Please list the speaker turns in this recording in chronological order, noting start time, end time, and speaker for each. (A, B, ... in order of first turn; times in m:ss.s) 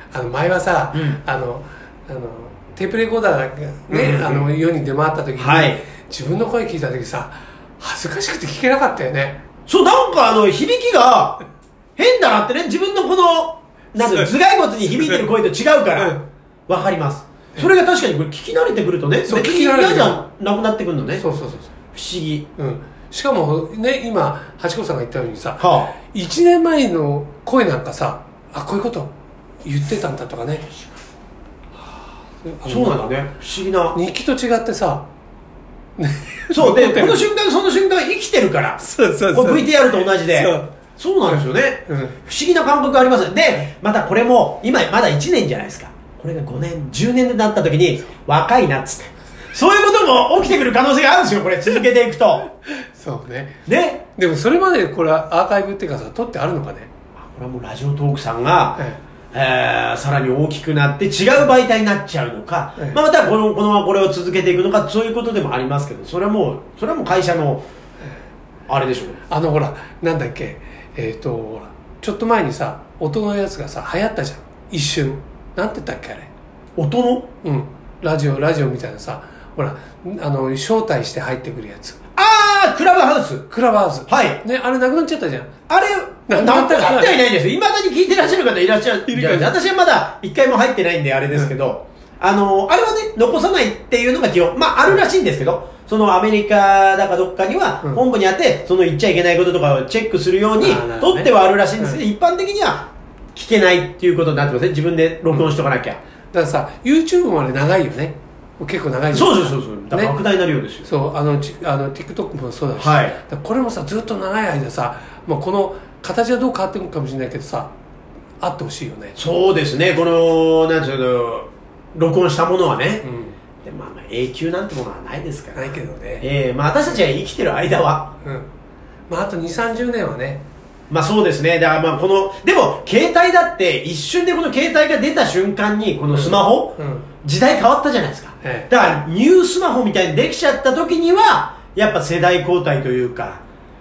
0:00.1-0:09.4 A
0:00.9-0:01.2 B
0:03.9-0:04.5 B
0:05.4-0:05.8 B
0:09.7-0:11.4 B
0:12.0-0:16.2 B
0:14.0-0:14.3 A
0:16.0-0:16.2 A
0:16.7-0:21.2 B
0:19.2-0:20.2 A
0:21.2-0:21.7 A
0:21.9-0:22.5 B
0:22.6-0:29.1 A
0:25.6-0:26.0 B
0:29.6-0:30.7 A
0:32.4-0:33.2 A
0:32.6-0:34.0 B
0:33.9-0:35.1 A
0:36.0-0:37.2 A
0:36.5-0:52.5 B
0:38.8-0:40.7 A
0:41.3-0:42.2 A
0:52.8-0:53.5 A
0:53.7-0:54.0 B
0:54.2-0:56.9 A
0:57.2-0:58.8 B
0:59.3-1:07.6 B
1:08.7-1:09.2 B
1:09.3-1:16.3 A
1:16.8-1:17.3 B
1:17.4-1:22.0 A
1:22.2-1:23.4 B
1:23.5-1:25.5 A
1:24.1-1:24.4 B
1:25.7-1:46.0 B
1:26.3-1:27.2 A
1:29.1-1:29.5 A
1:40.6-1:42.0 A
1:46.3-1:50.2 A
1:49.1-1:50.9 B
1:50.9-1:57.7 A
1:52.8-1:53.2 B
1:58.4-1:59.2 A
1:59.2-2:03.0 B
2:03.0-2:03.4 A
2:03.6-2:08.1 B
2:05.5-2:06.2 A
2:09.1-2:10.4 A
2:10.9-2:23.4 B
2:16.1-2:17.1 A
2:18.4-2:18.7 A